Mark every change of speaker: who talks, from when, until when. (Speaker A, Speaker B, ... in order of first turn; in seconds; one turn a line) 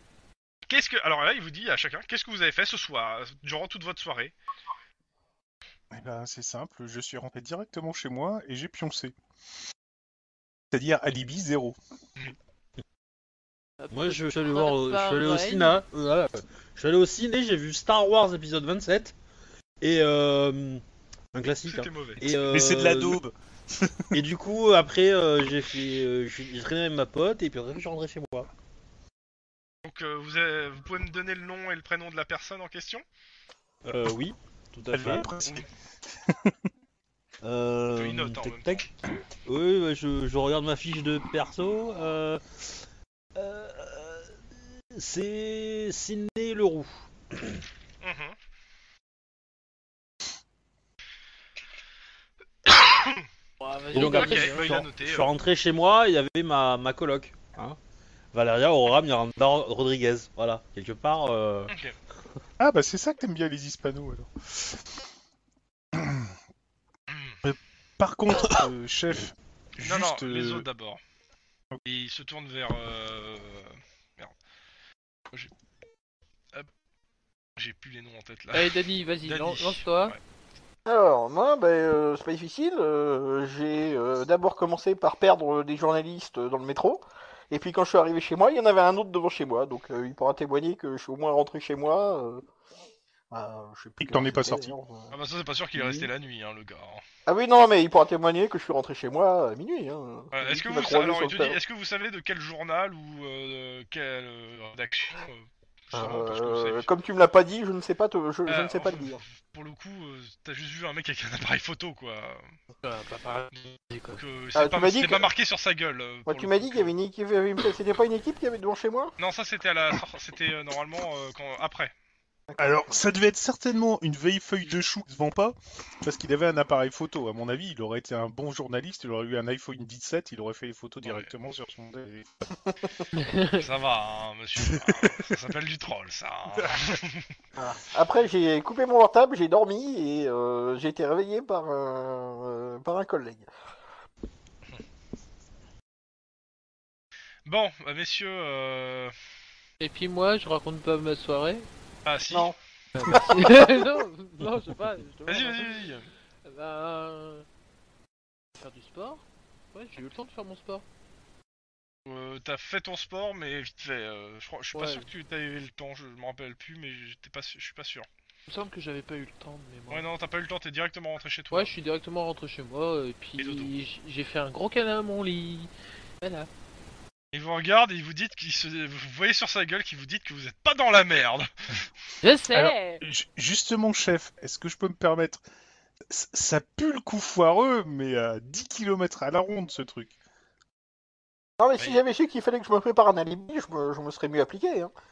Speaker A: 0.7-4.3
Speaker B: 5.9-9.1
Speaker B: 10.7-11.8
Speaker C: 13.8-15.8
Speaker D: 13.9-19.2
Speaker D: 19.8-20.8
Speaker D: 21.3-23.2
Speaker A: 21.7-22.2
Speaker B: 22.2-24.2
Speaker D: 24.1-28.5
Speaker A: 29.9-33.0
Speaker D: 33.9-35.3
Speaker B: 34.9-35.7
Speaker B: 36.3-36.6
Speaker D: 37.4-38.9
Speaker A: 38.0-38.9
Speaker D: 39.4-42.7
Speaker D: 43.4-44.4
Speaker D: 44.9-47.0
Speaker A: 48.0-48.4
Speaker A: 52.7-53.2
Speaker C: 53.6-54.8
Speaker D: 53.9-57.8
Speaker A: 54.0-55.3
Speaker D: 58.3-61.7
Speaker A: 61.7-62.0
Speaker B: 62.6-64.8
Speaker B: 65.9-66.3
Speaker A: 67.1-67.4
Speaker B: 67.4-70.7
Speaker A: 69.8-71.0
Speaker A: 71.9-74.3
Speaker A: 77.6-80.2
Speaker C: 78.5-80.2
Speaker E: 80.9-92.4
Speaker E: 93.3-95.1
Speaker B: 94.0-94.7
Speaker A: 95.1-97.0
Speaker D: 95.8-96.1
Speaker E: 97.3-101.6
Speaker A: 100.3-106.9
Speaker E: 105.9-109.2
Speaker A: 108.5-112.5
Speaker C: 112.8-114.2
Speaker A: 113.5-116.9
Speaker E: 114.5-115.3
Speaker E: 116.3-119.1
Speaker A: 119.2-121.9
Speaker E: 122.5-122.8
Speaker B: 122.6-132.5
Speaker A: 131.0-131.3
Speaker C: 133.2-133.7
Speaker A: 133.6-137.3
Speaker B: 134.6-135.4
Speaker E: 137.6-143.5
Speaker A: 147.5-149.2
Speaker C: 149.8-151.7
Speaker A: 152.1-152.6
Speaker C: 152.9-155.8
Speaker E: 153.1-153.7
Speaker A: 155.3-156.1
Speaker C: 156.4-157.5
Speaker C: 158.6-160.8
Speaker A: 162.1-168.1
Speaker C: 164.8-165.1
Speaker C: 168.5-170.1
Speaker A: 169.9-171.7
Speaker C: 171.5-176.5
Speaker A: 177.3-181.9
Speaker C: 182.2-183.0
Speaker B: 182.5-185.4
Speaker B: 186.1-190.2
Speaker E: 191.6-194.9